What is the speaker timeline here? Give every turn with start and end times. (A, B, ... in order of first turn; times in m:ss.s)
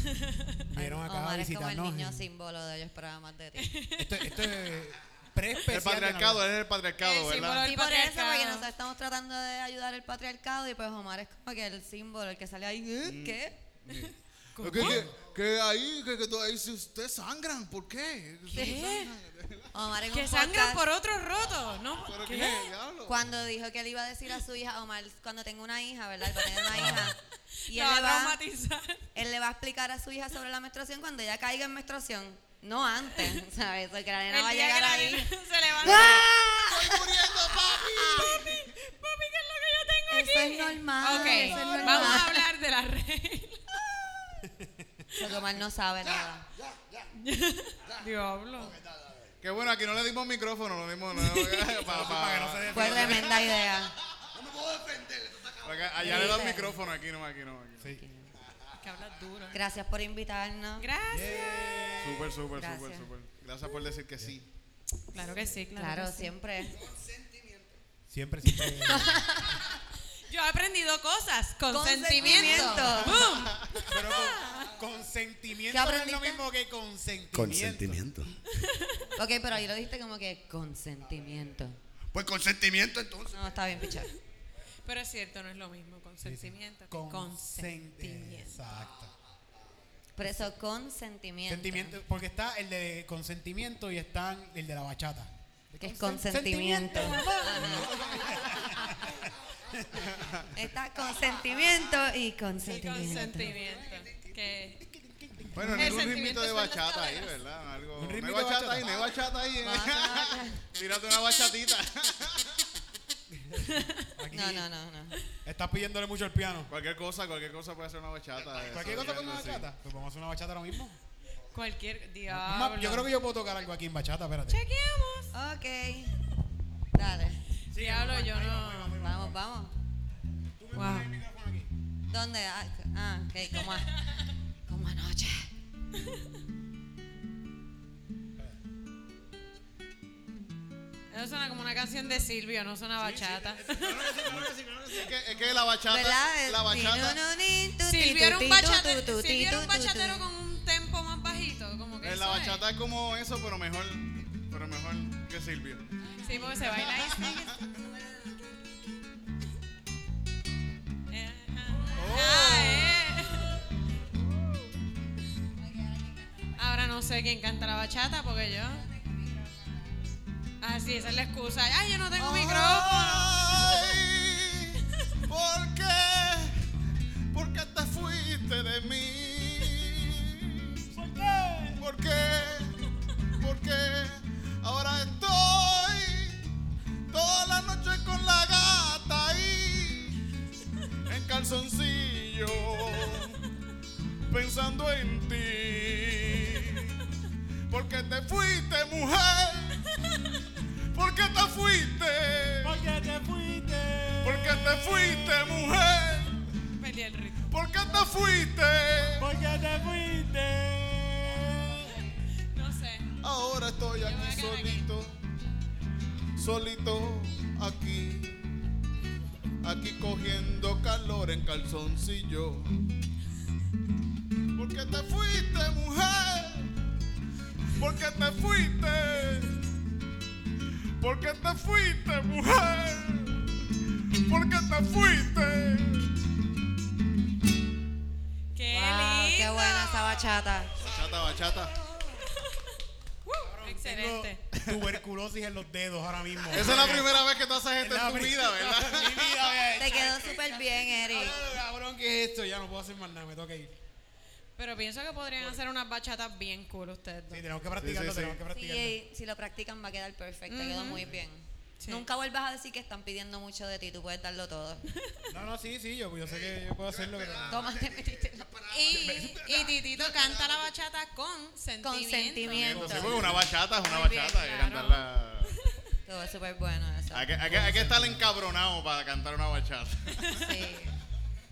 0:00.1-0:00.6 A
0:00.7-0:02.3 B
0:00.7-0:03.7 C
0:03.6-0:04.5 A
0:04.0-0:06.5 B
0:05.7-0:07.7 D
0:07.0-0:08.6 A
0:07.6-0:13.6 C
0:13.0-0:19.7 D
0:14.5-0:15.1 A
0:14.8-0:15.1 B
0:18.5-0:19.1 A
0:18.5-0:18.8 C
0:19.7-0:20.8 C
0:20.1-0:22.7 A
0:22.0-0:23.2 D
0:23.0-0:28.4 C
0:26.7-0:27.2 B
0:27.6-0:29.1 A
0:29.1-0:37.1 C
0:34.3-0:36.2 A
0:35.8-0:38.7 D
0:37.9-0:43.6 A
0:40.1-0:42.4 C
0:41.6-0:42.2 B
0:45.1-0:46.4 C
0:46.5-0:47.1 E
0:47.1-0:48.7 A
0:48.6-0:49.3 E
0:49.4-0:53.5 D
0:51.1-0:52.1 A
0:51.8-0:53.4 B
0:52.7-0:53.9 C
0:54.3-0:56.1 E
0:55.6-0:57.9 D
0:56.0-0:56.8 C
0:58.0-0:58.3 C
0:58.8-0:59.6 A
0:59.5-1:00.8 C
1:00.8-1:01.3 A
1:01.1-1:02.4 B
1:02.0-1:04.5 D
1:02.6-1:03.1 C
1:05.1-1:06.3 A
1:05.7-1:06.8 C
1:06.7-1:07.7 E
1:08.1-1:09.4 B
1:08.5-1:08.8 A
1:08.8-1:09.6 C
1:10.3-1:14.7 A
1:11.7-1:13.3 C
1:12.2-1:12.9 B
1:13.2-1:13.9 D
1:13.8-1:18.1 B
1:15.7-1:16.4 C
1:17.3-1:18.3 E
1:18.5-1:19.0 A
1:19.2-1:21.8 C
1:22.1-1:23.7 E
1:23.3-1:24.1 C
1:24.8-1:28.6 A
1:26.2-1:29.1 B
1:30.2-1:32.0 C
1:31.5-1:40.1 B
1:35.8-1:38.9 C
1:37.7-1:38.6 E
1:40.2-1:40.4 D
1:40.5-1:43.5 C
1:41.3-1:41.8 E
1:42.6-1:44.8 A
1:43.7-1:44.2 E
1:44.8-1:46.1 B
1:45.5-1:52.6 D
1:45.7-1:47.4 A
1:48.0-1:49.1 B
1:49.6-1:50.7 C
1:53.3-1:54.6 B
1:53.6-1:54.1 A
1:54.3-1:55.2 C
1:55.4-1:56.7 B
1:56.7-1:59.6 D
1:58.6-2:01.0 B
2:01.5-2:03.1 A
2:02.3-2:04.6 B
2:04.5-2:05.3 A
2:05.3-2:06.1 C
2:06.9-2:07.4 C
2:07.7-2:09.0 A
2:07.7-2:09.4 B
2:09.0-2:09.7 C
2:10.6-2:11.7 B
2:10.7-2:11.2 A
2:12.1-2:13.9 C
2:14.7-2:15.5 C
2:21.1-2:24.1 A
2:23.0-2:25.2 B
2:24.1-2:27.2 D
2:25.9-2:30.2 C
2:27.9-2:32.6 A
2:32.0-2:35.8 D
2:36.2-2:36.9 C
2:36.2-2:37.5 A
2:36.8-2:37.7 D
2:41.1-2:43.6 A
2:41.9-2:43.0 D
2:45.6-2:46.6 C
2:46.6-2:48.8 A
2:48.7-2:49.9 C
2:50.6-2:54.0 A
2:52.2-2:56.6 D
2:57.3-3:00.8 D
3:00.9-3:01.9 B
3:01.8-3:02.8 D
3:03.4-3:06.4 D
3:07.1-3:10.2 D
3:11.1-3:13.4 D
3:14.3-3:17.0 D
3:17.7-3:19.8 D
3:20.9-3:22.7 D
3:22.6-3:25.5 B
3:24.2-3:26.5 D
3:26.8-3:27.5 A
3:27.5-3:29.3 D
3:29.1-3:32.0 B
3:32.5-3:33.1 A
3:33.2-3:35.2 D
3:34.0-3:34.9 A
3:36.4-3:38.4 D
3:39.6-3:42.8 D
3:44.5-3:46.7 D
3:47.8-3:49.6 D
3:51.0-3:56.1 D
3:58.5-4:00.2 A
3:58.7-4:00.7 C
4:00.8-4:01.7 D
4:01.8-4:02.3 B
4:03.2-4:04.4 A
4:03.4-4:07.2 B
4:06.5-4:09.5 D
4:06.5-4:07.0 A
4:07.8-4:13.7 B
4:09.8-4:11.4 C
4:14.6-4:17.4 A
4:17.3-4:19.0 B
4:17.8-4:18.4 D
4:18.5-4:24.8 C
4:20.5-4:21.0 A
4:20.9-4:21.2 B
4:21.8-4:22.0 A
4:24.9-4:25.3 A
4:25.3-4:27.6 B
4:26.3-4:30.7 E
4:27.5-4:28.5 C
4:28.7-4:33.1 A
4:28.9-4:29.5 B
4:31.8-4:33.4 C
4:32.5-4:33.5 B
4:32.6-4:35.6 D
4:33.8-4:35.8 A
4:36.0-4:37.5 C
4:37.1-4:40.4 D
4:37.4-4:38.3 B
4:40.2-4:40.6 A
4:40.4-4:40.9 C